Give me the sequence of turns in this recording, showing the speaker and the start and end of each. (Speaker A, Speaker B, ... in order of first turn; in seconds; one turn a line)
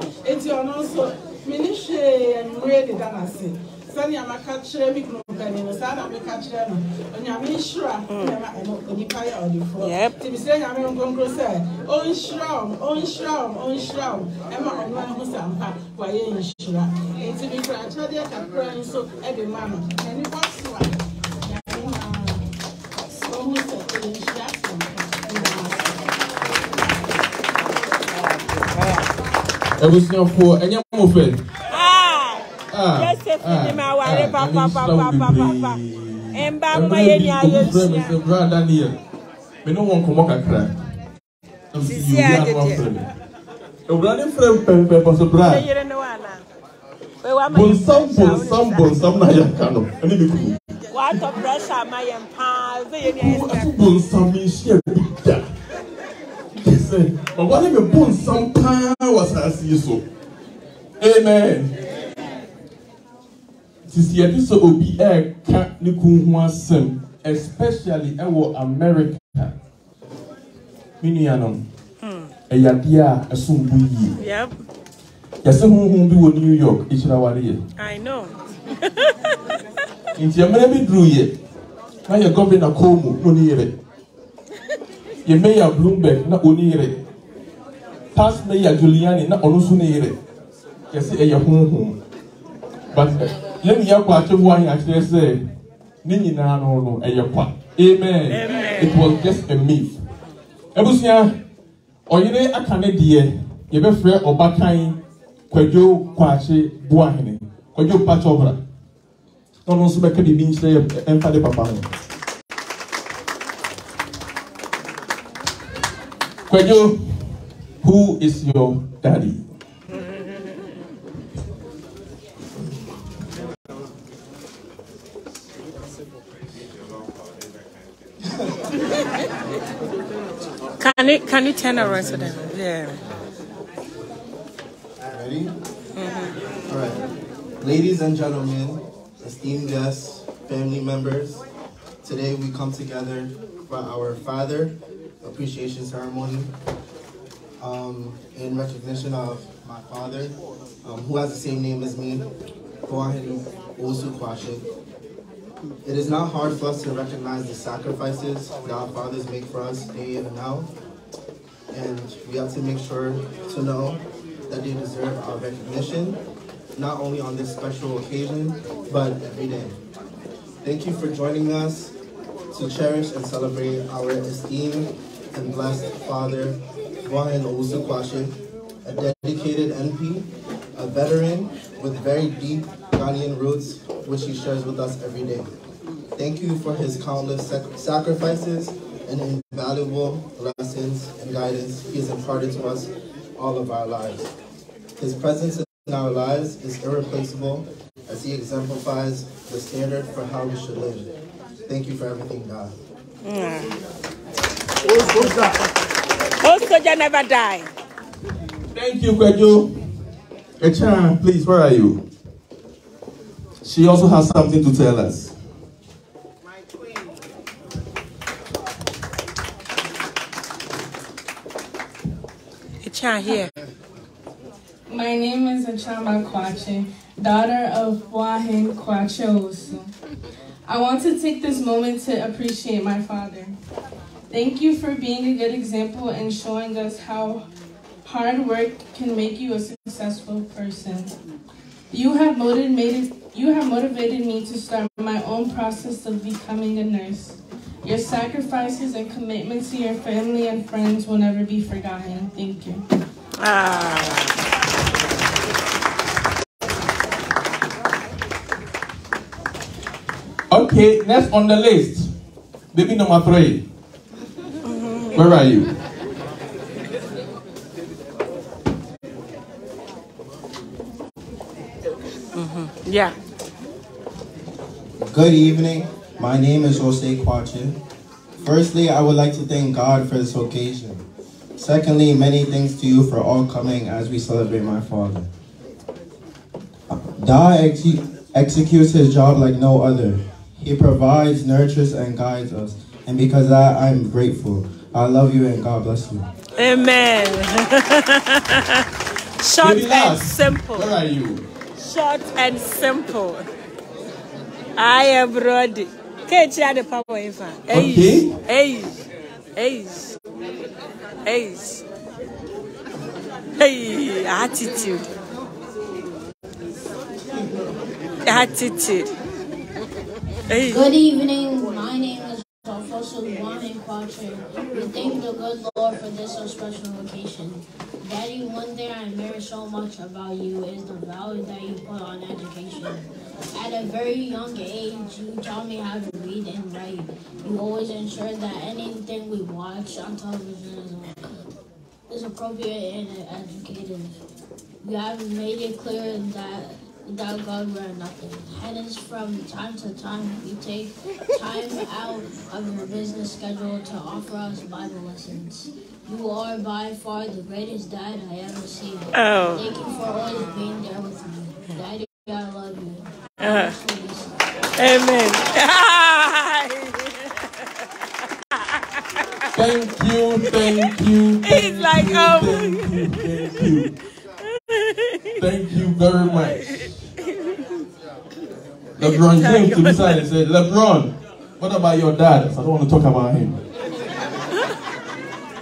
Speaker A: 0.2-21.0
Speaker B: 8.1-8.4
Speaker B: 9.8-10.2
Speaker A: 21.5-22.4
Speaker A: 23.2-26.0
Speaker B: 28.5-29.1
Speaker C: 29.8-31.4
Speaker B: 31.7-35.8
Speaker C: 32.7-39.0
Speaker B: 36.3-38.2
Speaker C: 39.6-40.7
Speaker C: 41.7-43.1
Speaker B: 41.9-42.9
Speaker C: 43.9-45.6
Speaker B: 45.4-46.4
Speaker B: 47.2-49.0
Speaker C: 47.5-51.2
Speaker B: 50.9-53.7
Speaker C: 53.2-55.5
Speaker C: 56.6-60.0
Speaker C: 61.0-61.7
Speaker C: 63.9-69.5
Speaker C: 71.0-71.7
Speaker B: 72.0-72.3
Speaker C: 72.5-74.2
Speaker B: 74.2-74.5
Speaker C: 75.4-77.6
Speaker B: 77.8-79.4
Speaker C: 80.2-81.4
Speaker C: 82.1-83.8
Speaker C: 85.2-87.0
Speaker C: 88.1-90.2
Speaker C: 90.9-92.0
Speaker C: 92.9-95.5
Speaker C: 96.0-100.0
Speaker B: 98.3-99.2
Speaker C: 100.8-101.4
Speaker C: 102.1-108.6
Speaker C: 109.7-111.9
Speaker C: 116.5-117.0
Speaker C: 117.8-119.4
Speaker B: 130.8-133.0
Speaker D: 135.1-135.5
Speaker B: 136.0-136.3
Speaker D: 136.7-137.0
Speaker D: 137.6-141.4
Speaker D: 142.0-146.5
Speaker D: 147.6-152.3
Speaker D: 152.9-154.7
Speaker D: 155.8-160.7
Speaker D: 161.7-166.2
Speaker D: 166.8-169.8
Speaker D: 170.6-171.9
Speaker D: 172.5-185.5
Speaker D: 186.2-194.3
Speaker D: 195.0-201.1
Speaker D: 201.7-202.7
Speaker B: 203.2-203.8
Speaker B: 205.0-205.5
Speaker B: 206.4-207.7
Speaker C: 208.7-209.7
Speaker C: 210.6-212.0
Speaker C: 213.6-215.3
Speaker B: 222.8-223.6
Speaker E: 224.9-229.9
Speaker E: 230.7-233.6
Speaker E: 234.3-237.4
Speaker E: 238.1-241.1
Speaker E: 241.9-252.8
Speaker B: 253.4-254.3
Speaker C: 260.5-262.1
Speaker C: 262.7-263.6
Speaker B: 264.6-265.3
Speaker C: 265.1-265.7
Speaker B: 272.4-273.1
Speaker D: 275.0-277.8
Speaker D: 278.4-281.0
Speaker D: 281.6-285.3
Speaker D: 286.9-296.3
Speaker B: 296.6-298.9
Speaker B: 299.4-300.9
Speaker C: 299.6-301.4
Speaker B: 301.8-303.4
Speaker B: 304.8-308.9
Speaker C: 307.7-308.3
Speaker B: 309.6-310.1
Speaker B: 311.3-311.8
Speaker B: 313.6-315.1
Speaker B: 318.3-319.1
Speaker B: 320.5-320.9
Speaker F: 320.6-333.0
Speaker F: 333.5-341.2
Speaker F: 342.1-344.1
Speaker F: 344.8-364.5
Speaker B: 359.1-359.7
Speaker B: 363.4-363.8
Speaker B: 364.8-367.3
Speaker C: 369.6-373.9
Speaker B: 370.6-370.9
Speaker B: 371.4-373.8
Speaker B: 374.6-375.3
Speaker C: 375.4-376.9
Speaker B: 376.3-377.8
Speaker C: 379.0-383.6
Speaker B: 379.0-380.2